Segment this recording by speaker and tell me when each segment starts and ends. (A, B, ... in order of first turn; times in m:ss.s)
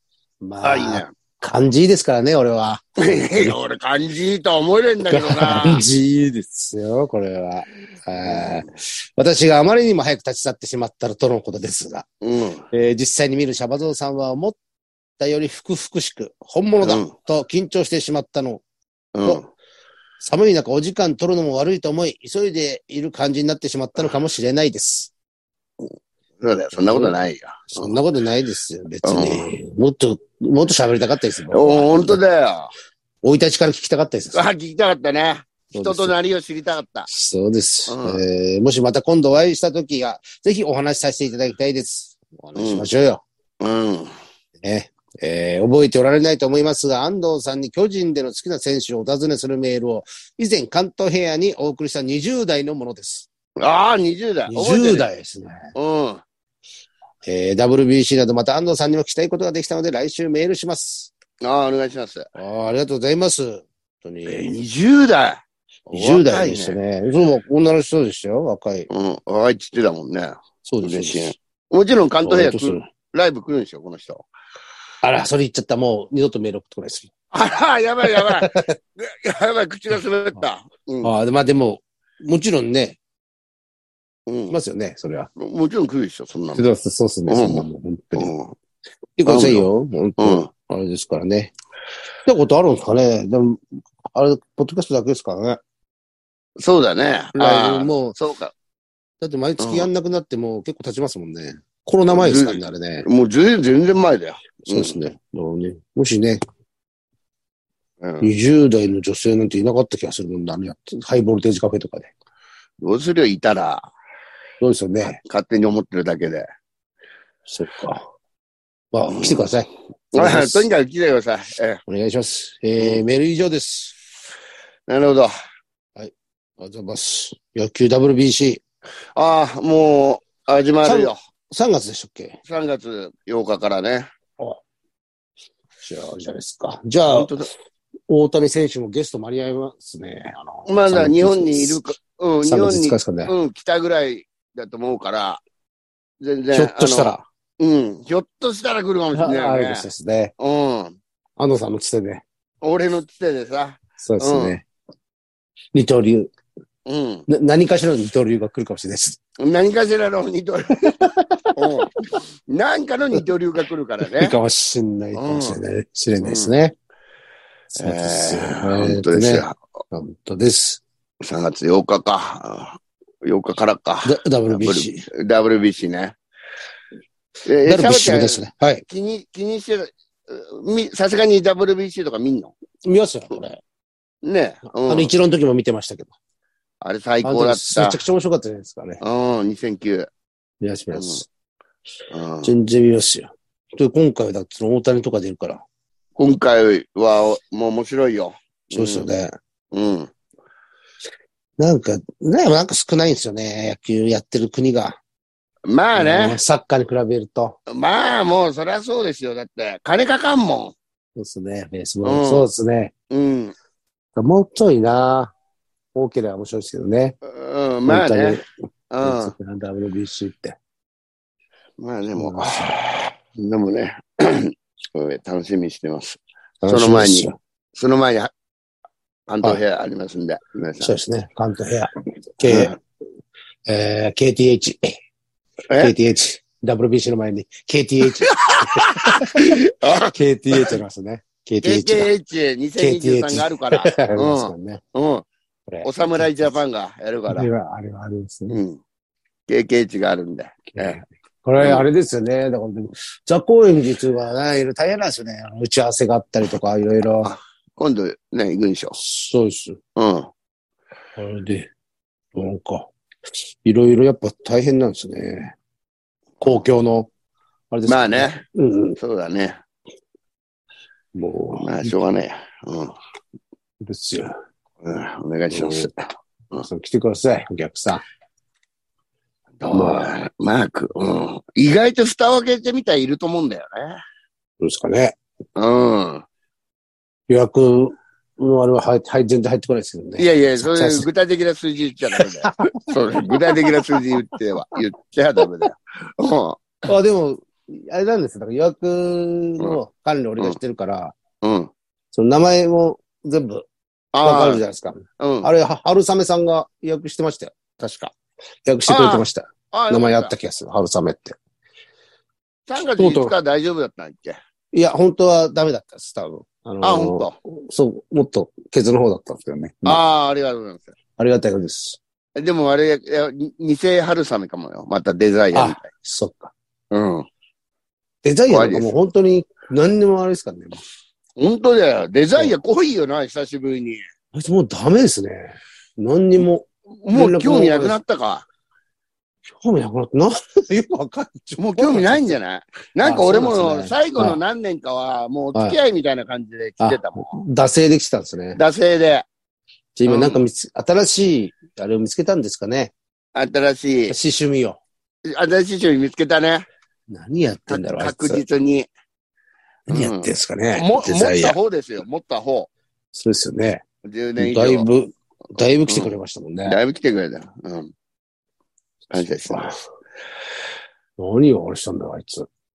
0:00.4-0:03.6 A
0:00.6-0:01.1 B
0:03.0-0:05.8 B
0:05.1-0:12.1 A
0:08.1-0:08.7 B
0:12.2-0:12.6 B
0:12.7-0:14.6 A
0:15.2-0:18.6 A
0:16.8-0:17.1 B
0:19.1-0:19.4 B
0:20.2-0:25.1 A
0:26.4-0:28.0 B
0:26.9-0:32.2 A
0:29.0-0:29.5 B
0:31.5-0:32.7 B
0:33.2-0:34.4 A
0:34.3-0:37.1 B
0:35.8-0:36.2 A
0:37.1-0:43.2 A
0:37.9-0:38.2 B
0:42.6-0:42.9 B
0:43.6-0:44.1 B
0:44.6-0:53.3 A
0:53.6-0:55.1 B
0:54.5-0:55.7 A
0:55.8-0:56.2 B
0:57.2-1:01.1 A
1:01.4-1:02.3 B
1:02.4-1:04.6 A
1:04.2-1:06.8 B
1:05.9-1:08.9 A
1:08.9-1:14.2 B
1:10.6-1:11.4 A
1:12.2-1:12.9 A
1:15.0-1:17.1 A
1:17.3-1:21.1 B
1:18.0-1:18.8 A
1:21.0-1:23.0 A
1:24.3-1:24.6 B
1:24.5-1:25.3 A
1:25.4-1:26.6 B
1:26.5-1:28.3 A
1:27.3-1:28.6 B
1:29.2-1:31.5 A
1:29.2-1:30.5 B
1:32.2-1:35.6 A
1:36.6-1:38.5 B
1:37.4-1:38.2 A
1:39.2-1:43.1 A
1:39.6-1:39.9 B
1:42.1-1:45.0 B
1:44.7-1:46.4 A
1:48.0-1:48.3 B
1:48.2-1:52.1 A
1:52.8-1:53.9 B
1:54.6-1:55.2 A
1:55.2-1:56.5 B
1:57.5-1:58.0 A
1:58.9-2:00.7 A
1:59.1-1:59.5 B
2:00.1-2:01.8 B
2:01.9-2:04.0 A
2:04.9-2:05.3 B
2:06.0-2:08.6 A
2:09.2-2:11.2 B
2:10.8-2:12.4 A
2:12.5-2:14.1 B
2:15.8-2:17.3 A
2:17.1-2:17.5 B
2:18.1-2:21.8 A
2:20.7-2:25.4 B
2:22.4-2:23.3 A
2:26.2-2:29.9 B
2:26.5-2:27.2 A
2:29.1-2:30.3 A
2:30.4-2:31.0 B
2:31.4-2:32.2 A
2:32.6-2:34.6 B
2:34.0-2:34.6 A
2:35.7-2:36.3 A
2:36.9-2:37.2 B
2:37.3-2:39.2 A
2:39.4-2:41.0 B
2:40.8-2:41.7 A
2:41.6-2:44.4 B
2:44.1-2:46.8 A
2:45.1-2:45.6 B
2:46.2-2:46.5 B
2:47.7-2:50.8 A
2:47.8-2:49.6 B
2:51.2-2:56.1 B
2:54.0-2:55.1 A
2:57.5-3:02.5 B
2:57.6-2:58.8 A
3:02.8-3:03.6 A
3:04.2-3:05.1 B
3:04.9-3:06.1 A
3:06.8-3:08.0 B
3:07.2-3:09.0 A
3:09.0-3:10.1 B
3:10.6-3:11.3 A
3:10.9-3:11.2 B
3:12.1-3:12.5 B
3:12.4-3:15.6 A
3:16.2-3:19.1 B
3:18.7-3:19.3 A
3:19.7-3:20.1 B
3:21.6-3:25.0 A
3:25.7-3:26.4 B
3:26.0-3:27.6 A
3:27.7-3:30.8 B
3:31.2-3:32.9 A
3:32.0-3:32.5 B
3:33.1-3:33.5 B
3:34.2-3:35.3 A
3:36.0-3:37.2 A
3:37.2-3:38.4 B
3:37.9-3:38.5 A
3:38.9-3:39.4 B
3:39.0-3:40.6 A
3:41.8-3:48.3 B
3:42.2-3:42.8 A
3:46.6-3:47.4 A
3:49.3-3:50.9 B
3:50.8-3:52.8 A
3:52.4-3:52.7 B
3:53.7-3:55.0 A
3:55.8-3:59.4 A
3:58.2-4:00.7 B
4:00.1-4:02.1 A
4:01.6-4:05.2 B
4:02.8-4:04.8 A
4:05.7-4:06.3 A
4:05.8-4:07.5 B
4:07.3-4:08.6 A
4:08.5-4:08.8 B
4:09.5-4:11.0 B
4:10.7-4:17.3 A
4:11.6-4:11.8 B
4:17.2-4:19.0 B
4:19.0-4:19.8 A
4:20.0-4:20.3 B
4:21.2-4:21.7 A
4:22.3-4:22.9 A
4:23.6-4:25.6 A
4:26.4-4:26.6 B
4:26.4-4:27.1 A
4:27.7-4:29.0 A
4:27.9-4:28.4 B
4:29.0-4:29.6 B
4:31.1-4:31.9 A
4:31.6-4:32.9 B
4:33.8-4:34.3 A
4:34.8-4:35.9 B
4:35.5-4:35.9 A
4:36.6-4:38.0 A
4:39.6-4:44.0 B
4:39.7-4:40.2 A
4:44.6-4:45.2 A
4:45.6-4:46.2 B
4:47.3-4:51.1 A
4:50.2-4:56.8 B
4:52.1-4:52.6 A
4:53.2-4:53.7 A
4:56.9-5:01.1 A
5:01.4-5:01.7 B
5:02.1-5:03.7 A
5:04.1-5:04.6 B
5:04.2-5:08.1 A
5:05.2-5:05.5 B
5:08.6-5:11.4 A
5:08.9-5:10.3 B
5:12.7-5:14.4 B
5:13.0-5:13.3 A
5:14.7-5:20.0 A
5:16.8-5:17.3 B
5:19.8-5:20.9 B
5:21.2-5:22.0 A
5:22.4-5:25.9 B
5:25.5-5:26.5 A
5:26.9-5:27.3 B
5:28.2-5:30.8 A
5:28.5-5:28.9 B
5:31.4-5:34.0 B
5:34.3-5:38.0 A
5:37.0-5:38.4 B
5:39.5-5:42.4 A
5:41.6-5:47.4 B
5:43.0-5:44.4 A
5:46.8-5:48.6 A
5:48.6-5:49.3 B
5:50.0-5:52.9 A
5:50.1-5:50.4 B
5:53.4-5:54.1 B
5:54.1-5:54.8 A
5:55.3-5:56.7 B
5:57.1-5:58.4 A
5:57.7-5:58.9 B
5:59.9-6:01.6 A
5:59.9-6:02.7 B
6:03.1-6:03.8 A
6:04.1-6:04.9 B
6:04.4-6:06.8 A
6:05.9-6:06.1 B
6:06.6-6:07.9 B
6:09.1-6:09.8 B
6:09.2-6:09.8 A
6:11.2-6:12.5 A